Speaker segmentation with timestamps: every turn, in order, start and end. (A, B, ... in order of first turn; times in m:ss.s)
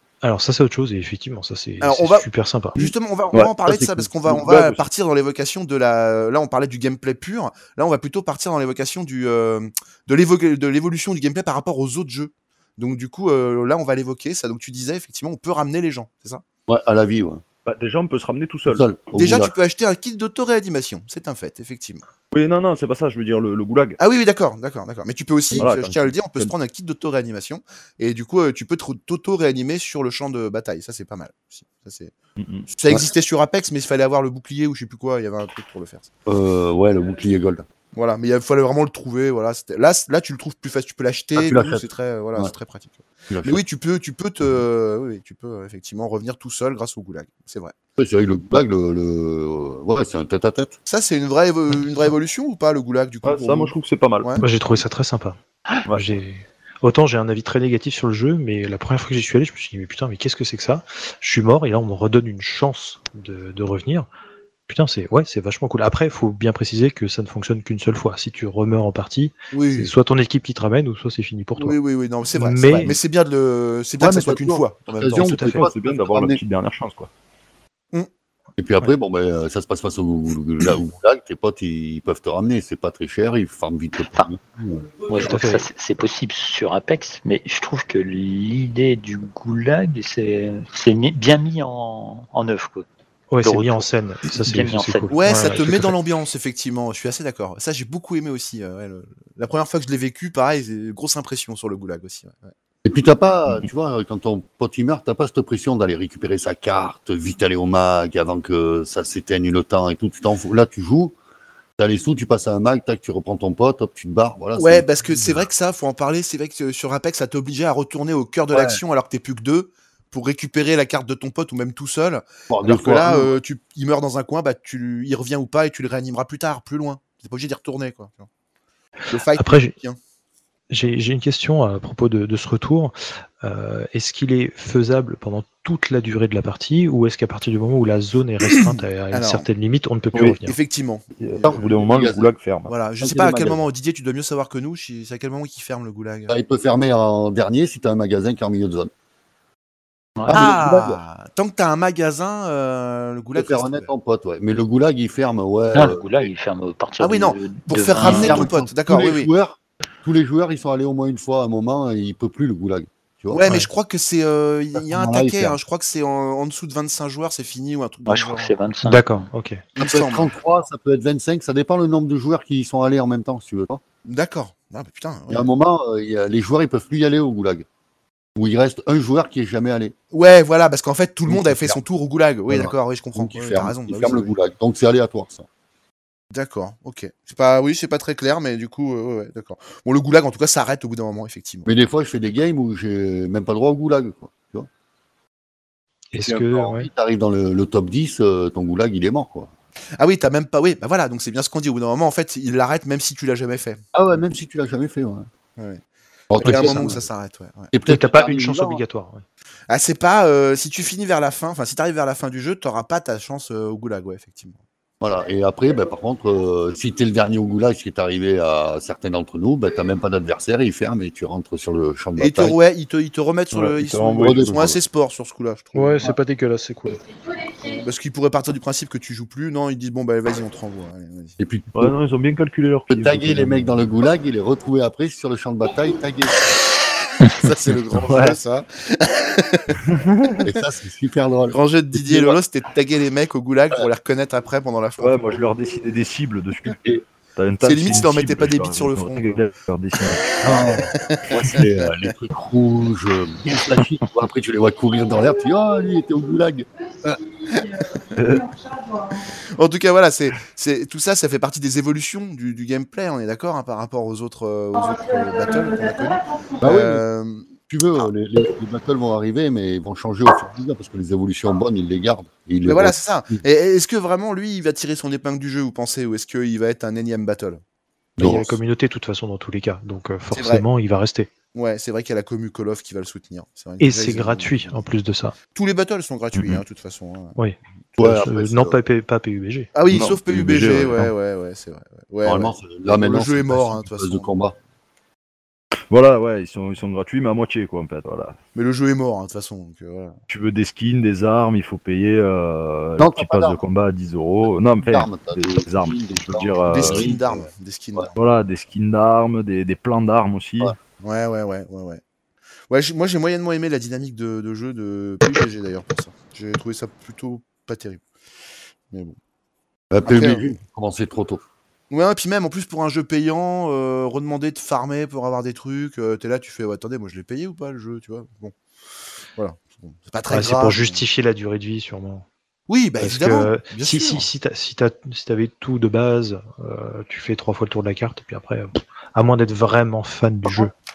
0:00.2-0:02.8 A
0:01.8-0:16.4 B
0:03.3-0:04.8 C
0:03.7-0:04.3 D
0:16.7-0:17.4 D
0:17.6-0:19.0 C
0:18.7-0:19.5 D
0:19.1-0:22.0 B
0:22.3-0:24.0 C
0:24.0-0:32.1 B
0:25.5-0:26.5 C
0:32.4-0:32.7 C
0:32.7-0:36.1 B
0:36.2-0:37.6 D
0:37.9-0:47.7 B
0:41.4-0:42.5 D
0:43.3-0:43.6 D
0:48.0-0:50.8 D
0:50.9-0:54.4 B
0:53.2-0:54.4 C
0:54.4-1:04.1 A
0:55.9-0:56.1 C
1:04.7-1:11.8 A
1:09.5-1:09.9 B
1:11.6-1:15.4 B
1:12.3-1:13.0 A
1:14.0-1:16.4 D
1:15.2-1:15.6 A
1:15.4-1:17.1 C
1:18.6-1:24.9 D
1:25.0-1:32.9 E
1:25.2-1:25.6 A
1:33.3-1:35.9 A
1:33.4-1:35.6 E
1:35.1-1:42.5 B
1:42.8-1:51.1 D
1:51.8-1:55.5 D
1:54.6-2:08.3 B
1:58.5-1:58.8 D
2:02.5-2:03.3 D
2:09.1-2:10.0 B
2:09.4-2:09.7 A
2:10.7-2:20.6 A
2:18.5-2:19.5 B
2:20.4-2:21.6 B
2:21.2-2:22.7 C
2:21.4-2:22.3 D
2:22.7-2:26.3 B
2:23.0-2:23.6 D
2:26.3-2:28.9 D
2:30.2-2:30.5 E
2:30.3-2:31.0 D
2:30.3-2:33.9 B
2:33.3-2:36.2 D
2:35.7-2:38.5 E
2:37.0-2:39.3 B
2:38.0-2:43.5 D
2:43.3-2:48.5 B
2:44.7-2:45.6 D
2:48.1-2:49.2 E
2:48.8-2:49.6 A
2:49.8-2:50.3 B
2:49.8-2:53.8 D
2:54.0-2:55.5 B
2:55.3-2:57.6 D
2:58.4-2:59.9 D
3:00.1-3:04.3 B
3:01.3-3:01.8 D
3:02.5-3:05.4 D
3:06.3-3:11.7 B
3:11.6-3:14.7 D
3:16.1-3:16.9 A
3:16.2-3:19.5 D
3:20.0-3:23.8 B
3:23.9-3:25.3 D
3:25.6-3:25.8 B
3:26.3-3:27.1 D
3:26.4-3:27.7 B
3:26.4-3:27.0 A
3:27.7-3:28.8 D
3:27.8-3:29.2 A
3:29.7-3:34.6 B
3:35.0-3:42.6 D
3:42.2-3:46.2 B
3:43.5-3:44.8 C
3:44.2-3:44.8 D
3:45.7-3:47.0 A
3:47.6-3:51.4 B
3:51.4-3:51.9 D
3:51.7-3:53.9 C
3:52.9-3:56.4 D
3:57.3-3:59.7 B
3:57.9-3:58.4 C
3:59.8-4:00.4 C
4:00.4-4:02.4 D
4:01.5-4:05.4 B
4:05.0-4:06.8 C
4:06.7-4:07.0 D
4:07.4-4:10.3 C
4:07.6-4:09.4 B
4:10.3-4:11.6 B
4:10.4-4:17.2 D
4:18.1-4:18.5 C
4:19.6-4:27.5 B
4:26.6-4:27.0 D
4:27.7-4:33.4 D
4:32.6-4:37.6 B
4:38.2-4:38.6 D
4:38.2-4:41.3 A
4:40.3-4:40.6 B
4:41.5-4:44.8 B
4:43.8-4:45.4 A
4:45.5-4:47.4 B
4:46.3-4:46.6 C
4:47.4-4:49.7 A
4:48.0-4:48.8 D
4:49.7-4:54.3 B
4:49.9-4:51.1 C
4:52.2-4:54.6 D
4:55.9-4:58.4 C
4:58.5-5:00.2 B
5:00.3-5:07.2 C
5:03.0-5:03.6 D
5:04.8-5:08.1 D
5:06.7-5:08.2 B
5:08.1-5:10.8 C
5:11.0-5:12.0 B
5:12.7-5:18.0 B
5:18.9-5:19.2 B
5:19.9-5:21.4 D
5:20.0-5:20.4 B
5:21.9-5:28.5 B
5:29.4-5:31.0 B
5:30.3-5:32.2 A
5:32.7-5:34.2 B
5:33.0-5:40.7 A